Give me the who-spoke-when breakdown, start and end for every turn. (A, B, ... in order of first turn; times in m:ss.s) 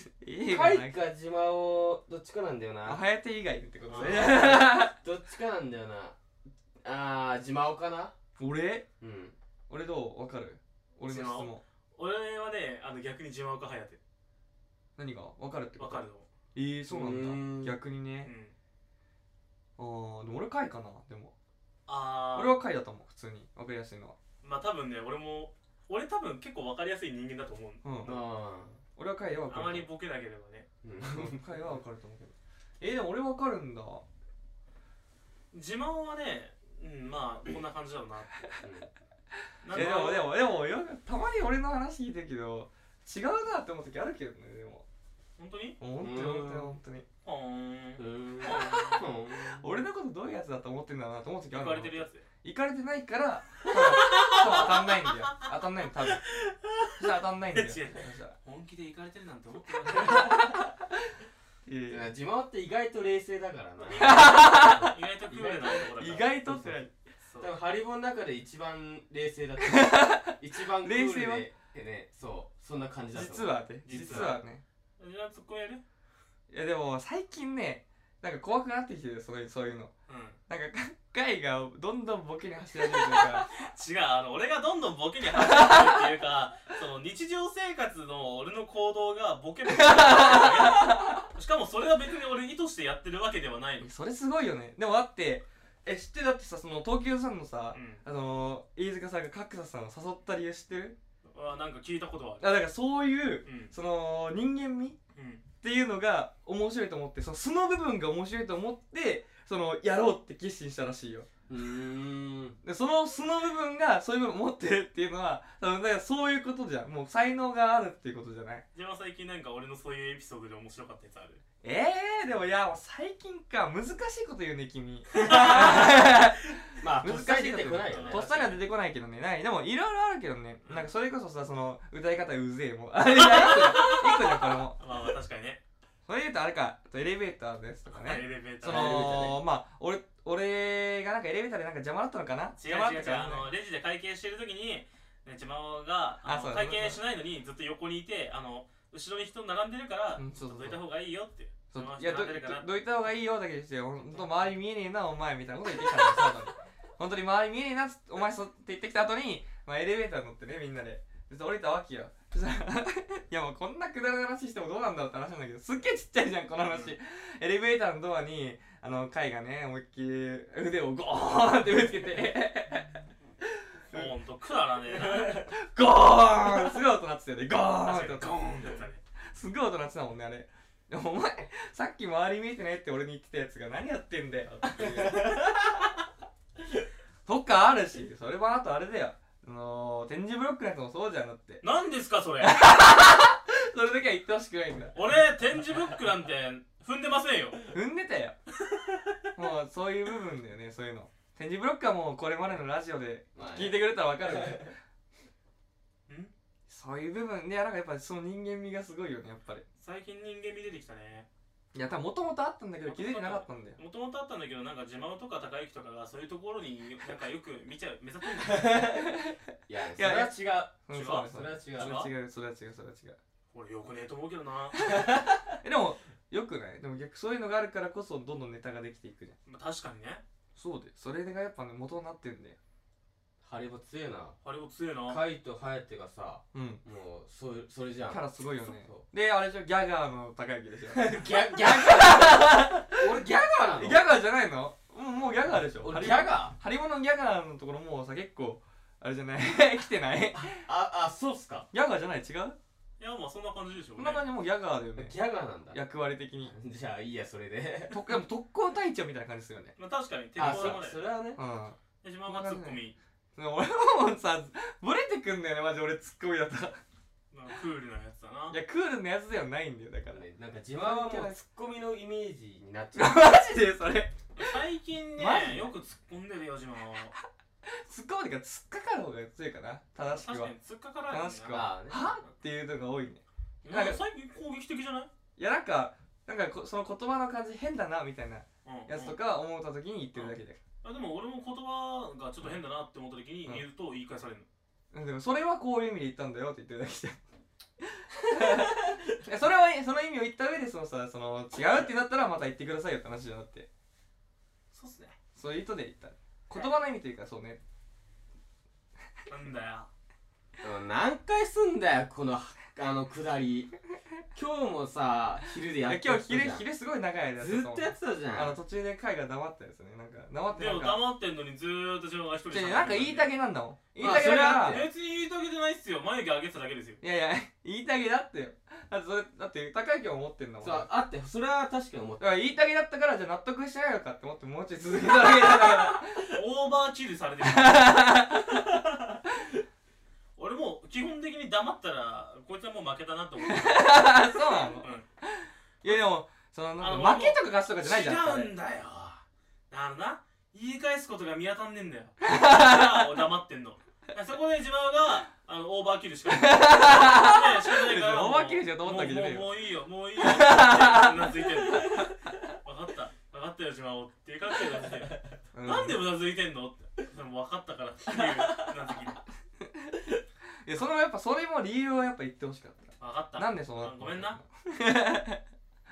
0:00.2-0:01.0 A
0:00.4-0:03.0 B
0:02.8-0:04.9 A
0:03.9-0:04.4 C
0:03.9-0:06.2 B
0:06.8-0:08.2 B
0:08.4-0:08.9 A
0:09.0-0:09.4 B
0:09.7-0:11.6 A
0:11.0-0:14.0 C
0:15.0-0:18.3 A
0:15.8-0:16.3 C
0:16.9-0:17.8 B
0:18.2-0:18.5 C
0:19.8-0:21.3 A
0:21.9-0:22.6 C
0:22.3-0:24.2 A
0:24.4-0:28.2 C
0:27.8-0:28.2 A
0:28.0-0:28.8 B
0:29.0-0:29.9 A
0:29.5-0:30.7 C
0:30.8-0:31.4 B
0:31.0-0:34.0 A
0:35.5-0:38.4 C
0:38.6-0:38.9 B
0:39.6-0:40.3 C
0:39.7-0:44.8 A
0:45.4-0:45.8 C
0:45.8-0:47.1 A
0:46.0-0:46.8 B
0:47.2-0:49.0 C
0:48.0-0:49.8 B
0:48.5-0:56.2 A
0:51.5-0:52.3 C
0:53.7-0:54.9 C
0:56.3-0:57.0 C
0:57.0-0:58.4 A
0:57.5-1:00.5 C
0:59.9-1:00.7 A
1:01.7-1:02.1 A
1:01.9-1:05.8 B
1:03.8-1:07.5 C
1:03.9-1:05.0 A
1:05.9-1:06.9 A
1:07.4-1:14.4 B
1:09.6-1:11.5 A
1:13.1-1:14.6 A
1:13.9-1:14.4 C
1:15.0-1:15.8 C
1:16.5-1:19.9 A
1:20.1-1:20.4 C
1:20.5-1:23.5 A
1:23.1-1:33.9 C
1:25.3-1:26.1 A
1:29.7-1:31.3 A
1:33.8-1:41.0 A
1:37.7-1:38.0 C
1:41.3-1:42.6 C
1:42.4-1:45.0 A
1:43.4-1:43.7 C
1:45.2-1:45.4 C
1:45.6-1:51.3 A
1:51.5-1:52.6 B
1:52.6-1:58.6 A
1:58.7-2:01.4 C
2:01.6-2:14.8 A
2:05.1-2:06.0 C
2:05.2-2:06.0 B
2:06.8-2:08.6 B
2:07.8-2:08.6 C
2:13.2-2:15.6 C
2:16.1-2:23.5 A
2:17.9-2:19.3 C
2:18.6-2:19.4 B
2:22.6-2:32.7 C
2:26.2-2:27.0 A
2:30.2-2:30.8 A
2:31.7-2:54.1 A
2:53.9-2:55.5 C
2:55.0-3:06.0 A
2:57.8-2:59.0 C
3:04.8-3:05.5 B
3:07.3-3:11.6 A
3:11.6-3:12.6 C
3:12.4-3:15.1 A
3:14.9-3:17.7 C
3:17.7-3:18.4 A
3:19.4-3:24.8 A
3:23.4-3:23.8 B
3:26.1-3:26.3 C
3:26.7-3:29.6 A
3:29.8-3:31.3 C
3:31.7-3:33.8 A
3:32.8-3:38.9 C
3:38.7-3:43.2 A
3:39.7-3:42.0 B
3:40.9-3:42.1 C
3:43.5-3:44.8 C
3:44.8-3:49.4 A
3:44.9-3:45.2 B
3:49.5-3:50.2 C
3:50.6-3:52.6 A
3:53.4-3:54.4 B
3:54.4-3:55.2 C
3:55.1-3:59.0 B
3:56.5-3:56.8 A
3:58.1-4:03.1 A
4:00.9-4:04.0 B
4:03.8-4:10.6 A
4:05.8-4:06.6 B
4:10.4-4:11.7 B
4:11.7-4:12.6 A
4:13.0-4:14.2 C
4:14.0-4:15.2 A
4:15.0-4:15.8 B
4:15.7-4:16.5 A
4:16.4-4:18.1 B
4:17.9-4:19.8 A
4:19.8-4:21.0 C
4:20.4-4:21.4 B
4:20.4-4:20.8 A
4:21.4-4:22.8 A
4:22.0-4:23.0 C
4:23.4-4:26.8 A
4:27.3-4:28.6 C
4:28.5-4:30.2 A
4:30.1-4:33.2 B
4:30.8-4:31.4 A
4:33.0-4:34.6 A
4:34.3-4:37.2 C
4:35.2-4:35.7 A
4:37.2-4:40.5 A
4:40.0-4:41.6 C
4:41.1-4:44.0 A
4:41.5-4:42.2 B
4:43.6-4:45.1 C
4:45.4-4:50.6 A
4:48.6-4:49.2 C
4:50.1-4:54.5 C
4:54.9-4:57.2 A
4:57.8-5:03.7 A
5:04.7-5:05.2 C
5:05.4-5:07.6 A
5:09.3-5:09.9 C
5:10.6-5:13.7 B
5:14.3-5:16.6 B
5:15.8-5:21.0 A
5:17.4-5:18.6 B
5:20.5-5:23.3 C
5:22.5-5:24.9 A
5:24.0-5:24.9 B
5:24.3-5:27.0 C
5:27.0-5:30.9 A
5:30.6-5:32.2 B
5:32.2-5:36.4 A
5:36.2-5:38.3 C
5:37.4-5:38.8 A
5:40.4-5:45.1 C
5:43.4-5:48.5 A
5:46.8-6:09.2 C
5:52.2-5:53.2 A
5:56.3-5:59.6 A
6:00.2-6:02.5 A
6:05.5-6:06.0 A
6:09.6-6:15.4 A
6:13.0-6:14.4 C